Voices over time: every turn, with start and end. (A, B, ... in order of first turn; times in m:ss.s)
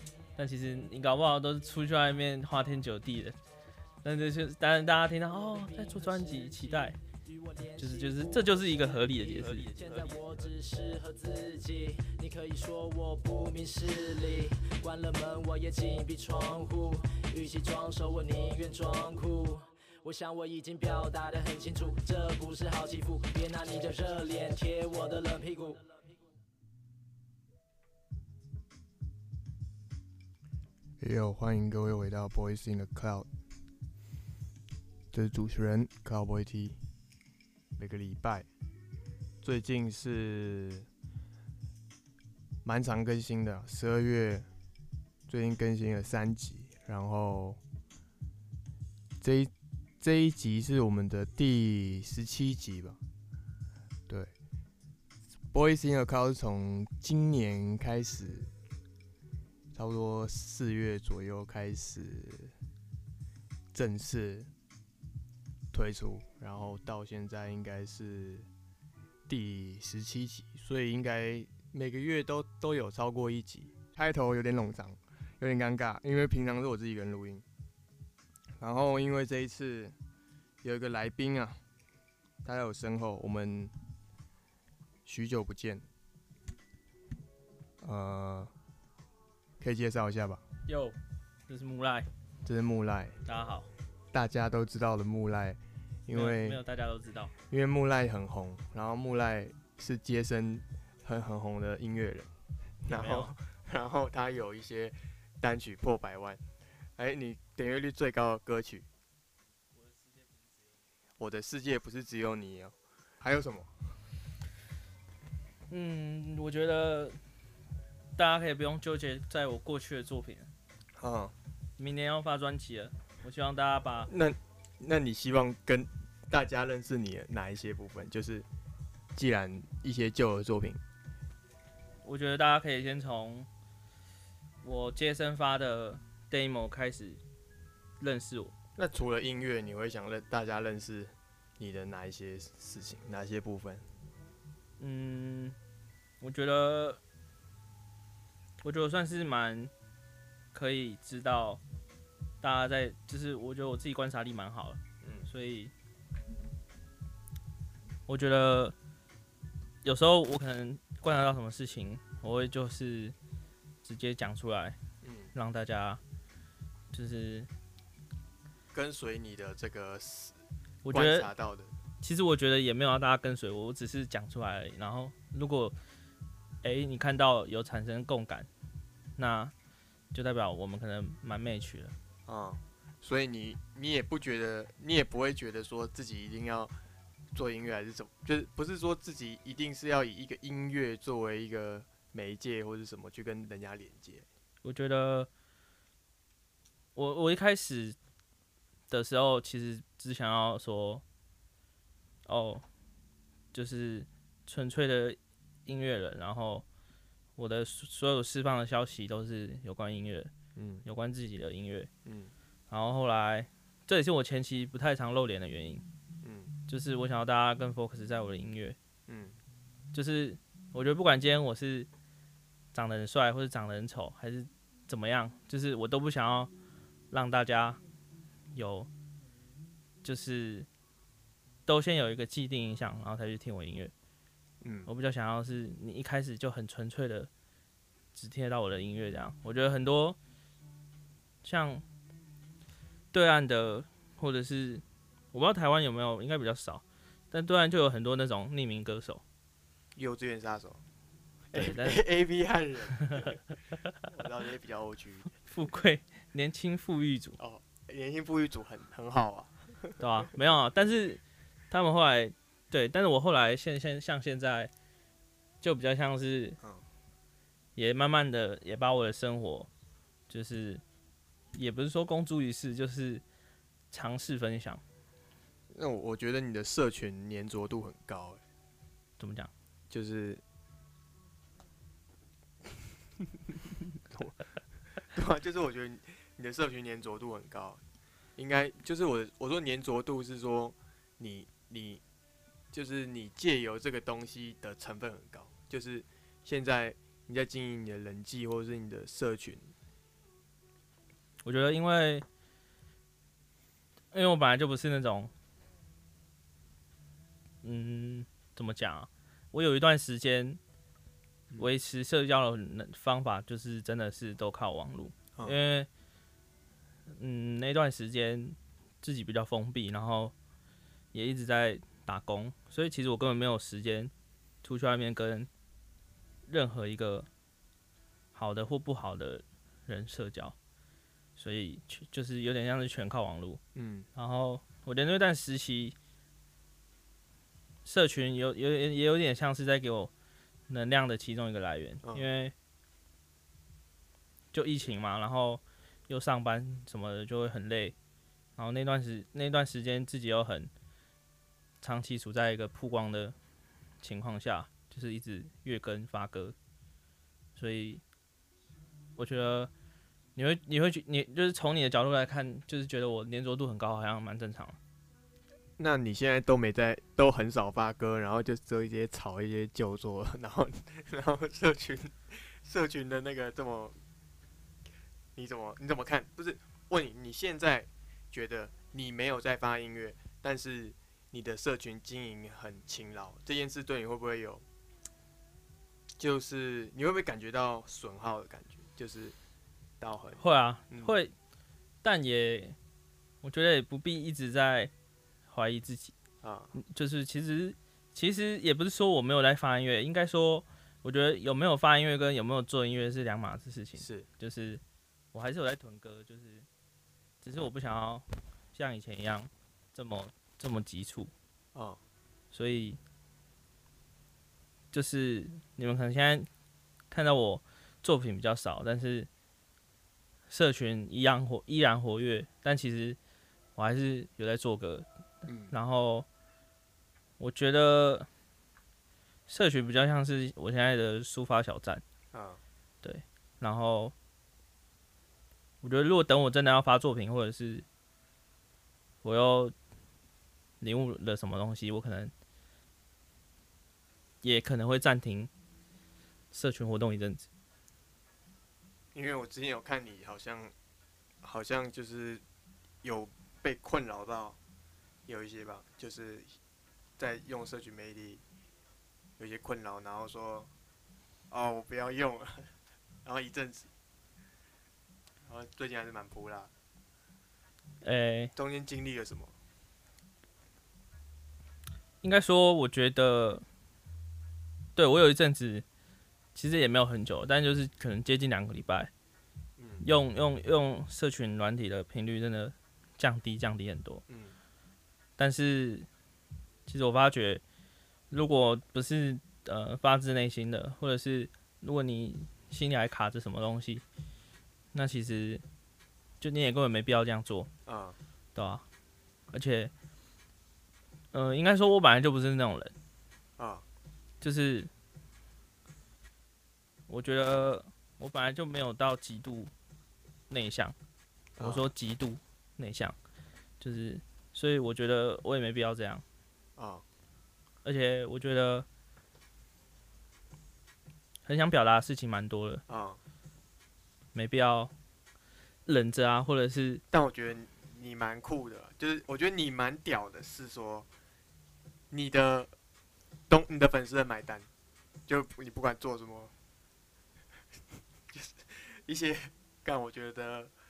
0:00.4-0:03.4 A
0:04.0-0:07.0 A
0:05.4-0:26.0 B
0:07.8-0:09.7 A
0:31.0-0:33.3 C
0:35.1-0:36.8 C
0:37.8-0:38.5 C
0:39.4-0:40.9 C
0:42.6-0:44.5 C
0:45.3-0:47.6 C
0:49.2-0:53.0 C
0:55.5-0:58.5 C
0:59.7-1:02.5 C
1:03.7-1:04.5 C
1:05.7-1:08.5 C
1:09.3-1:17.4 C
1:18.6-1:19.9 C
1:20.6-1:21.6 C
1:22.4-1:23.7 C
1:25.0-1:25.8 C
1:27.8-1:28.5 C
1:29.6-1:30.4 C
1:30.7-1:31.0 A
1:31.5-1:32.1 A
1:32.4-1:33.2 C
1:33.2-1:33.7 A
1:34.1-1:36.6 C
1:36.1-1:37.3 A
1:37.5-1:42.3 C
1:42.8-1:46.4 C
1:42.9-1:43.3 A
1:47.0-1:48.8 C
1:51.2-1:54.0 C
1:55.7-1:57.2 A
1:58.2-2:00.5 A
2:01.0-2:01.3 C
2:01.8-2:04.1 A
2:04.1-2:08.5 C
2:09.1-2:10.8 C
2:12.0-2:13.5 A
2:14.6-2:17.2 A
2:18.0-2:18.5 A
2:18.8-2:23.9 C
2:24.8-2:25.6 A
2:26.2-2:27.0 A
2:28.6-2:29.7 A
2:30.5-2:31.6 A
2:32.4-2:35.7 A
2:35.0-2:35.3 C
2:38.1-2:38.8 A
2:39.8-2:43.1 A
2:43.8-2:44.8 A
2:45.0-2:45.3 C
2:45.3-2:46.0 A
2:46.9-2:47.5 A
2:48.7-2:50.4 C
2:50.8-2:51.3 A
2:50.9-2:51.7 C
2:52.0-2:55.8 A
2:56.6-2:58.5 A
2:59.2-2:59.5 A
3:00.1-3:01.9 A
3:02.3-3:06.7 C
3:07.3-3:14.2 C
3:14.6-3:15.3 A
3:16.9-3:18.0 A
3:18.9-3:21.0 A
3:22.2-3:22.6 A
3:23.5-3:26.6 A
3:27.4-3:30.3 A
3:30.6-3:30.8 C
3:30.8-3:31.9 A
3:32.0-3:32.3 C
3:32.7-3:35.8 A
3:36.2-3:36.5 C
3:36.7-3:38.8 A
3:39.1-3:39.4 C
3:39.9-3:41.9 A
3:42.7-3:46.5 A
3:47.1-3:47.8 A
3:48.5-3:48.9 A
3:50.0-3:50.7 A
3:51.7-3:53.9 A
3:54.6-3:54.9 C
3:54.8-3:57.3 A
3:58.1-4:00.2 A
4:01.4-4:01.8 A
4:03.1-4:09.2 A
4:10.0-4:10.8 C
4:11.5-4:13.4 C
4:11.5-4:12.0 A
4:14.1-4:15.3 C
4:15.4-4:17.4 A
4:17.4-4:20.0 C
4:20.0-4:24.7 A
4:25.6-4:26.6 A
4:27.8-4:29.7 A
4:30.3-4:30.8 A
4:31.5-4:33.2 A
4:33.9-4:34.8 A
4:35.7-4:38.4 C
4:39.2-4:39.5 A
4:39.9-4:40.4 C
4:45.0-4:47.8 C
4:48.4-4:52.0 C
4:52.7-4:59.7 C
5:01.4-5:02.2 A
5:04.1-5:05.3 A
5:07.6-5:10.6 A
5:11.6-5:15.9 A
5:17.1-5:20.3 A
5:21.1-5:24.1 A
5:24.6-5:25.5 A
5:26.5-5:27.3 A
5:28.3-5:30.6 A
5:31.4-5:33.6 A
5:33.8-5:34.1 C
5:34.2-5:36.0 A
5:37.8-5:40.1 A
5:40.7-5:42.5 A
5:44.5-5:48.0 A
5:48.6-5:50.7 A
5:51.8-5:53.4 A
5:54.0-5:56.6 A
5:57.6-5:58.0 A
5:59.2-5:59.7 A
6:00.4-6:04.8 A
6:05.8-6:14.0 C
6:15.4-6:24.6 C
6:26.2-6:29.4 C
6:30.0-6:31.1 C
6:30.4-6:31.3 A
6:32.0-6:32.8 A
6:33.4-6:34.9 A
6:35.5-6:36.1 A
6:36.4-6:36.7 C
6:36.8-6:44.8 A
6:44.0-6:44.3 C
6:45.3-6:46.7 A
6:47.4-6:51.3 A
6:51.7-6:52.0 C
6:52.5-6:53.0 A
6:54.9-6:56.5 A
6:57.1-6:59.3 A
7:00.5-7:03.2 A
7:03.8-7:05.1 A
7:05.5-7:05.7 C
7:05.7-7:06.2 A
7:07.4-7:08.3 A
7:09.5-7:12.0 A
7:12.3-7:12.6 C
7:13.0-7:14.1 A
7:15.8-7:17.8 A
7:19.2-7:19.7 A
7:20.8-7:22.3 A
7:24.4-7:25.5 A
7:26.5-7:27.5 A
7:29.1-7:30.7 C
7:31.4-7:32.4 C
7:33.0-7:34.6 C
7:35.2-7:36.6 C
7:37.2-7:38.4 C
7:39.4-7:40.7 C
7:41.5-7:42.7 C
7:43.2-7:43.9 C
7:45.5-7:46.7 C
7:48.0-7:48.5 A
7:48.6-7:49.5 C
7:52.2-7:53.6 A
7:55.0-7:55.8 A
7:56.6-7:59.1 A
7:59.8-8:00.1 C
8:00.0-8:04.2 A
8:04.3-8:04.6 C
8:05.4-8:06.1 A
8:06.9-8:07.6 A
8:08.3-8:14.0 A
8:14.9-8:15.6 A
8:16.4-8:17.7 A
8:17.9-8:18.2 C
8:18.6-8:18.8 A
8:19.5-8:19.9 A
8:21.3-8:22.9 A
8:23.6-8:23.8 C
8:24.4-8:24.9 A
8:27.1-8:29.7 A
8:30.5-8:31.0 A
8:31.6-8:31.9 C
8:31.6-8:33.1 A
8:33.8-8:36.2 A
8:36.8-8:37.0 C
8:37.8-8:38.9 A
8:41.4-8:42.8 A
8:42.9-8:43.2 C
8:44.3-8:44.9 A
8:45.9-8:47.0 A
8:47.1-8:51.1 C
8:52.1-8:52.7 C
8:53.5-8:54.7 C
8:55.3-8:56.5 C
8:58.3-9:00.7 C